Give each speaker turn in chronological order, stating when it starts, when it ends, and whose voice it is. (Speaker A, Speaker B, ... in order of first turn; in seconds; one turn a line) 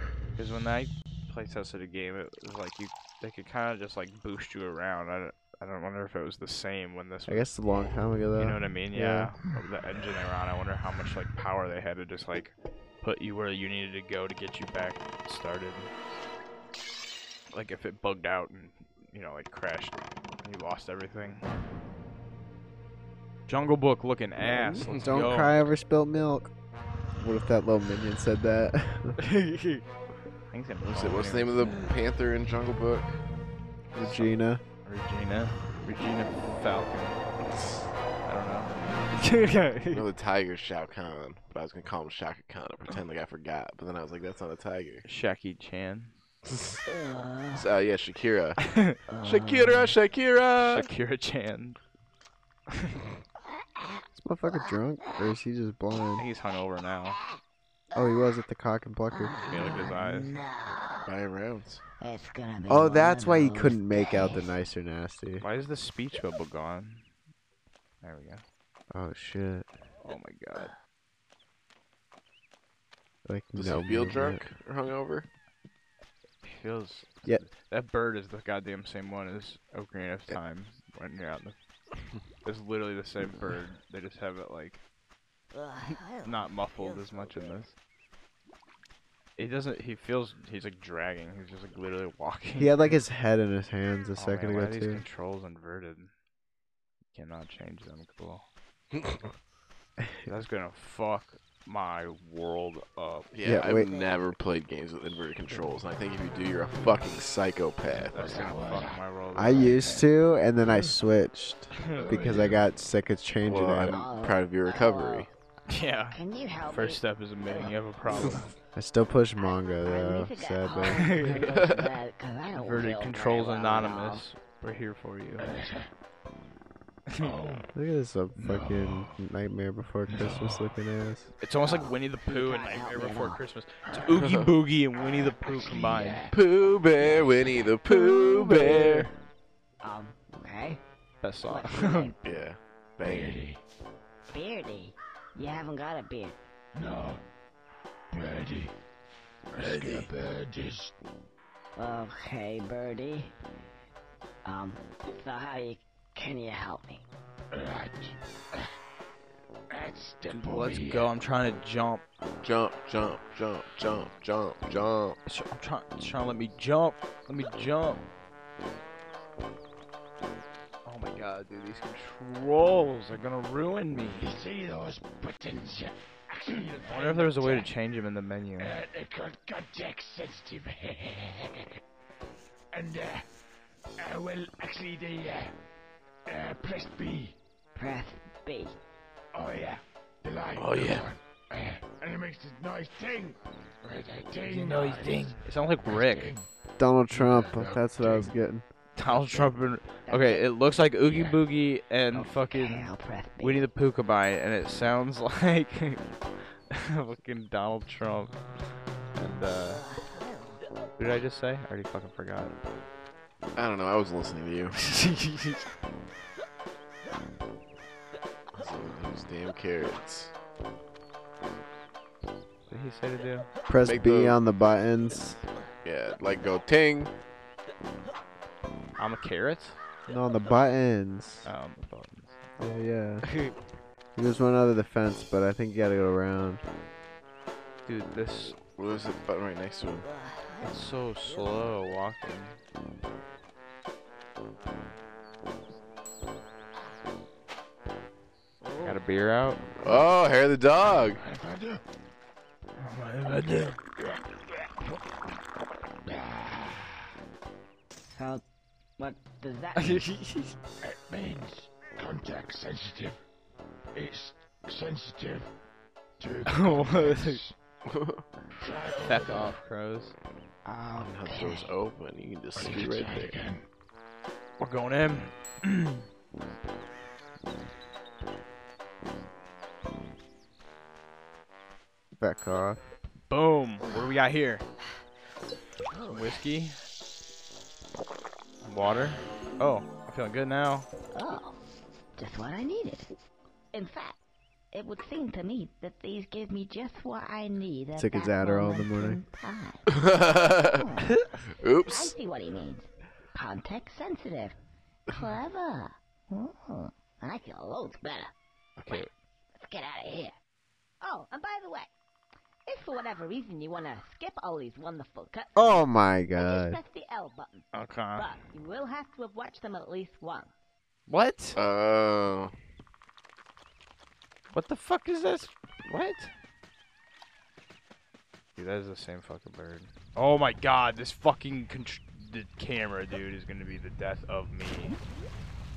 Speaker A: 0.3-7.5
Speaker B: 7.2-9.3
Speaker A: 8.3-15.9
Speaker A: 17.5-21.4
Speaker A: 23.5-25.6
Speaker C: 24.8-25.1
Speaker B: 24.8-26.5
Speaker B: 27.2-29.2
Speaker A: 29.2-29.9
Speaker A: 30.5-31.7
Speaker C: 30.9-33.2
Speaker B: 34.0-34.6
Speaker A: 34.1-34.3
Speaker A: 34.9-37.2
Speaker A: 38.2-40.1
Speaker C: 39.9-45.0
Speaker A: 45.0-46.1
Speaker C: 46.5-46.8
Speaker D: 46.9-47.7
Speaker C: 47.5-48.6
Speaker A: 48.6-49.0
Speaker D: 49.1-50.0
Speaker C: 49.2-50.9
Speaker A: 50.6-51.8
Speaker B: 54.2-56.2
Speaker D: 54.6-55.1
Speaker A: 56.2-57.2
Speaker D: 57.9-58.3
Speaker B: 57.9-59.7
Speaker D: 59.1-61.1
Speaker A: 59.5-60.3
Speaker C: 61.0-61.8
Speaker D: 62.0-64.5
Speaker B: 62.7-65.5
Speaker A: 65.4-67.1
Speaker A: 68.0-68.4
Speaker B: 68.9-69.7
Speaker A: 70.0-70.7
Speaker B: 73.2-74.4
Speaker C: 73.5-75.3
Speaker A: 76.4-81.6
Speaker A: 82.5-84.8
Speaker D: 85.5-87.5
Speaker A: 86.2-87.7
Speaker A: 89.4-93.0
Speaker B: 92.6-95.0
Speaker A: 94.2-96.1
Speaker A: 97.1-98.5
Speaker C: 98.9-99.2
Speaker B: 100.0-100.3
Speaker A: 100.2-103.3
Speaker C: 103.3-108.4
Speaker B: 103.5-103.9
Speaker D: 103.7-104.1
Speaker A: 107.9-110.1
Speaker E: 108.0-109.8
Speaker B: 109.3-114.0
Speaker A: 111.8-112.1
Speaker E: 112.0-112.6
Speaker A: 113.5-113.9
Speaker C: 113.7-115.3
Speaker D: 113.8-115.3
Speaker A: 115.7-118.5
Speaker D: 116.1-117.7
Speaker B: 118.8-121.2
Speaker D: 119.4-124.2
Speaker A: 120.9-121.4
Speaker C: 121.5-121.9
Speaker A: 122.6-125.5
Speaker E: 125.4-125.9
Speaker E: 127.2-127.7
Speaker B: 127.7-131.3
Speaker E: 128.4-129.1
Speaker E: 130.1-130.6
Speaker A: 131.4-136.3
Speaker D: 131.6-133.4
Speaker E: 133.8-134.2
Speaker C: 134.2-134.5
Speaker E: 134.9-136.4
Speaker C: 136.3-139.1
Speaker D: 137.0-138.3
Speaker A: 138.4-139.1
Speaker D: 139.8-140.8
Speaker A: 141.2-142.1
Speaker D: 141.5-142.2
Speaker C: 142.2-143.3
Speaker E: 143.0-143.6
Speaker D: 144.3-146.4
Speaker E: 146.8-147.2
Speaker E: 148.1-148.7
Speaker E: 149.5-150.9
Speaker D: 149.7-150.0
Speaker D: 151.8-153.3
Speaker D: 154.4-157.1
Speaker E: 157.5-158.7
Speaker E: 159.7-161.1
Speaker A: 160.3-162.0
Speaker C: 162.4-165.2
Speaker A: 165.2-168.0
Speaker A: 170.9-174.3
Speaker E: 174.2-177.7
Speaker A: 176.8-178.7
Speaker E: 178.6-181.8
Speaker E: 182.7-183.2
Speaker E: 184.0-185.5
Speaker E: 186.3-187.4
Speaker D: 187.8-188.8
Speaker E: 189.3-196.5
Speaker C: 190.6-191.1
Speaker A: 194.5-196.3
Speaker B: 196.8-198.6
Speaker E: 197.1-198.3
Speaker A: 199.0-202.9
Speaker D: 200.1-200.5
Speaker D: 201.1-201.4
Speaker D: 202.1-203.7
Speaker A: 203.4-206.1
Speaker A: 206.7-208.4
Speaker A: 209.2-209.8
Speaker D: 209.7-210.6
Speaker A: 211.0-212.6
Speaker C: 213.6-214.8
Speaker A: 214.8-215.6
Speaker C: 218.6-220.3
Speaker A: 222.7-223.5
Speaker B: 223.7-225.4
Speaker C: 223.8-224.4
Speaker C: 225.8-227.1
Speaker A: 229.0-229.8
Speaker B: 230.1-231.5
Speaker A: 231.4-232.4
Speaker B: 232.6-233.3
Speaker A: 233.2-233.5
Speaker B: 234.2-236.6
Speaker A: 237.9-238.6
Speaker C: 238.8-240.1
Speaker D: 240.0-241.6
Speaker A: 240.6-242.6
Speaker D: 248.6-248.9
Speaker A: 248.8-249.6
Speaker C: 249.8-251.2
Speaker E: 251.2-251.8
Speaker A: 252.8-253.8
Speaker E: 256.1-256.9
Speaker D: 258.1-258.4
Speaker D: 259.0-260.1
Speaker A: 259.8-260.5
Speaker E: 260.8-263.2
Speaker E: 263.9-265.5
Speaker E: 266.2-267.6
Speaker A: 266.5-267.4
Speaker C: 267.9-268.2
Speaker E: 268.6-269.6
Speaker A: 269.0-270.1
Speaker D: 270.6-271.7
Speaker C: 271.0-273.4
Speaker E: 272.6-273.6
Speaker A: 274.6-276.0
Speaker B: 282.2-282.8
Speaker A: 283.3-284.6
Speaker D: 285.9-286.3
Speaker A: 286.1-286.8
Speaker A: 288.6-290.9
Speaker D: 291.1-291.6
Speaker D: 292.2-293.1
Speaker D: 293.7-294.2
Speaker D: 294.7-300.0
Speaker B: 297.9-299.2
Speaker C: 299.9-300.9
Speaker D: 300.6-301.2
Speaker C: 301.6-302.1
Speaker D: 301.8-304.6
Speaker D: 305.1-308.3
Speaker A: 308.8-309.1
Speaker D: 308.9-310.4
Speaker D: 311.0-311.9
Speaker D: 312.7-320.5
Speaker B: 315.6-316.8
Speaker A: 317.7-318.3
Speaker A: 321.1-321.6
Speaker C: 321.6-322.5
Speaker A: 324.5-326.3
Speaker A: 328.6-335.0